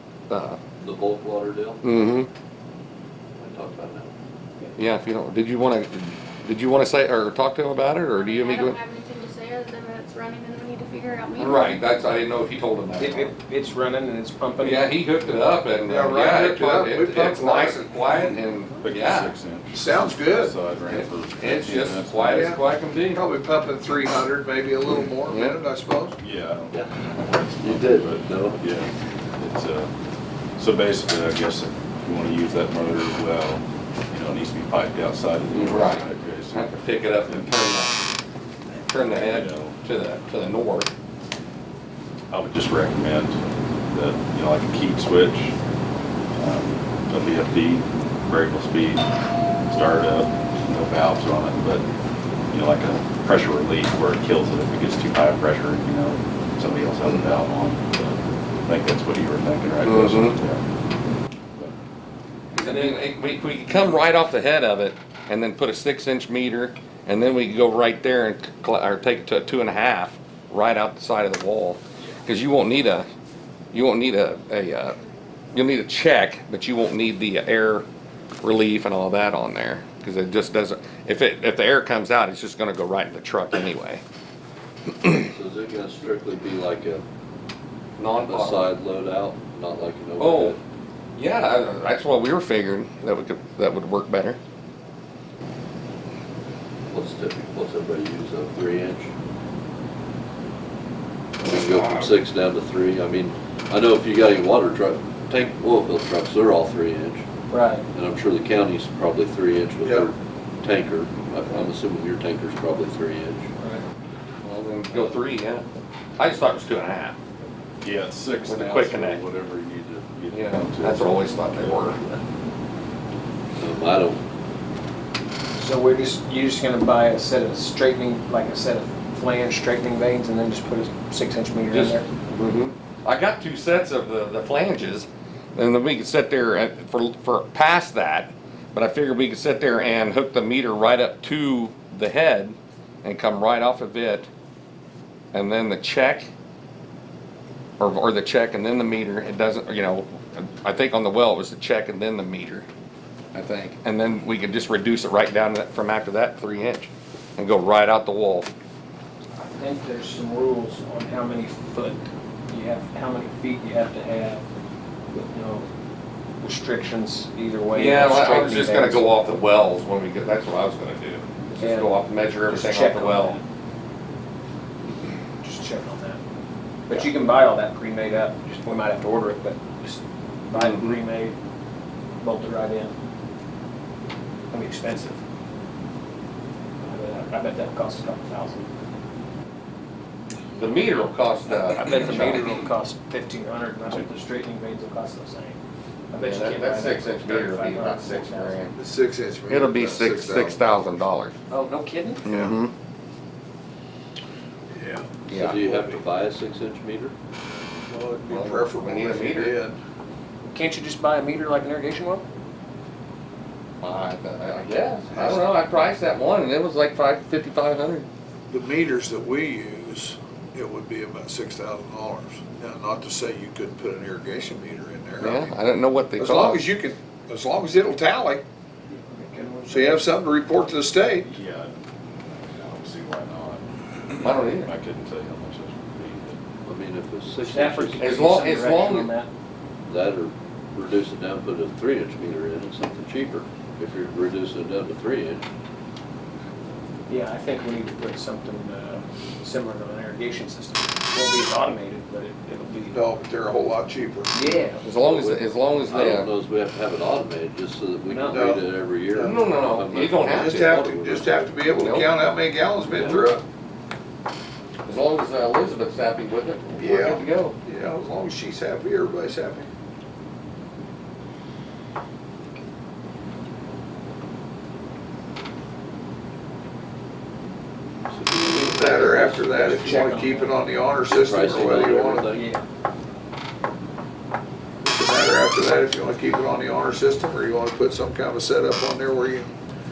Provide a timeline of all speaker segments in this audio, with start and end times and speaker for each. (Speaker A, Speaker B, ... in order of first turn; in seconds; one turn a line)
Speaker A: 0.3-0.6
Speaker B: 0.8-1.8
Speaker A: 1.8-2.3
Speaker B: 3.4-4.1
Speaker A: 4.8-8.8
Speaker C: 8.1-11.8
Speaker A: 11.4-13.3
Speaker D: 13.0-14.9
Speaker A: 14.6-19.3
Speaker E: 15.8-17.9
Speaker F: 18.8-22.6
Speaker E: 19.7-20.5
Speaker A: 20.9-23.2
Speaker E: 22.2-22.6
Speaker E: 23.1-26.2
Speaker A: 25.3-25.6
Speaker F: 26.2-29.9
Speaker B: 27.6-28.6
Speaker F: 30.6-37.5
Speaker A: 35.5-38.0
Speaker A: 38.9-40.9
Speaker F: 39.0-39.8
Speaker F: 42.3-45.5
Speaker F: 46.3-49.1
Speaker F: 49.7-51.8
Speaker F: 52.5-60.6
Speaker A: 59.8-60.4
Speaker A: 62.5-73.1
Speaker D: 62.6-63.0
Speaker A: 73.7-74.9
Speaker A: 75.5-77.8
Speaker A: 78.4-84.0
Speaker B: 85.2-87.0
Speaker A: 88.0-88.7
Speaker B: 88.2-90.6
Speaker A: 90.2-90.6
Speaker A: 91.2-94.4
Speaker B: 96.9-99.1
Speaker B: 101.4-107.2
Speaker D: 107.5-107.8
Speaker B: 107.9-113.5
Speaker E: 109.8-110.1
Speaker A: 114.4-115.7
Speaker A: 116.2-117.2
Speaker F: 117.8-122.2
Speaker A: 118.4-119.2
Speaker A: 120.3-122.0
Speaker B: 123.6-124.2
Speaker D: 125.6-132.1
Speaker A: 131.7-144.3
Speaker A: 145.3-146.3
Speaker A: 147.8-152.7
Speaker A: 153.3-158.5
Speaker D: 159.4-164.4
Speaker D: 165.1-165.7
Speaker D: 166.4-169.1
Speaker A: 167.7-173.4
Speaker D: 171.5-173.4
Speaker D: 175.4-176.2
Speaker D: 176.9-181.3
Speaker A: 180.6-180.9
Speaker D: 182.2-182.9
Speaker D: 184.5-185.2
Speaker D: 186.8-188.7
Speaker A: 190.6-192.6
Speaker D: 191.5-195.6
Speaker D: 196.1-198.7
Speaker A: 196.2-198.7
Speaker E: 198.7-200.6
Speaker A: 199.5-201.3
Speaker D: 201.5-202.2
Speaker A: 202.2-202.7
Speaker E: 202.3-202.6
Speaker E: 204.7-206.0
Speaker A: 205.3-205.6
Speaker B: 205.3-207.1
Speaker E: 207.9-209.8
Speaker A: 208.3-209.5
Speaker D: 210.5-212.2
Speaker A: 213.8-218.1
Speaker E: 215.1-215.4
Speaker E: 218.5-225.6
Speaker A: 225.2-226.6
Speaker E: 226.2-228.4
Speaker D: 229.1-230.1
Speaker E: 229.7-231.3
Speaker F: 231.2-236.4
Speaker A: 234.2-234.7
Speaker B: 236.7-238.3
Speaker D: 237.4-239.3
Speaker A: 238.0-239.1
Speaker B: 239.9-245.4
Speaker D: 247.1-253.0
Speaker E: 252.9-254.3
Speaker D: 254.3-254.8
Speaker A: 254.8-256.3
Speaker B: 255.1-261.6
Speaker D: 258.1-258.5
Speaker E: 258.3-258.6
Speaker E: 259.1-259.4
Speaker A: 259.2-260.8
Speaker E: 260.2-263.4
Speaker A: 261.7-262.1
Speaker B: 262.9-263.3
Speaker A: 264.9-267.6
Speaker E: 266.8-269.7
Speaker B: 278.1-280.0
Speaker E: 278.4-282.3
Speaker D: 279.7-280.7
Speaker B: 281.1-282.5
Speaker D: 282.3-282.6
Speaker E: 284.8-289.5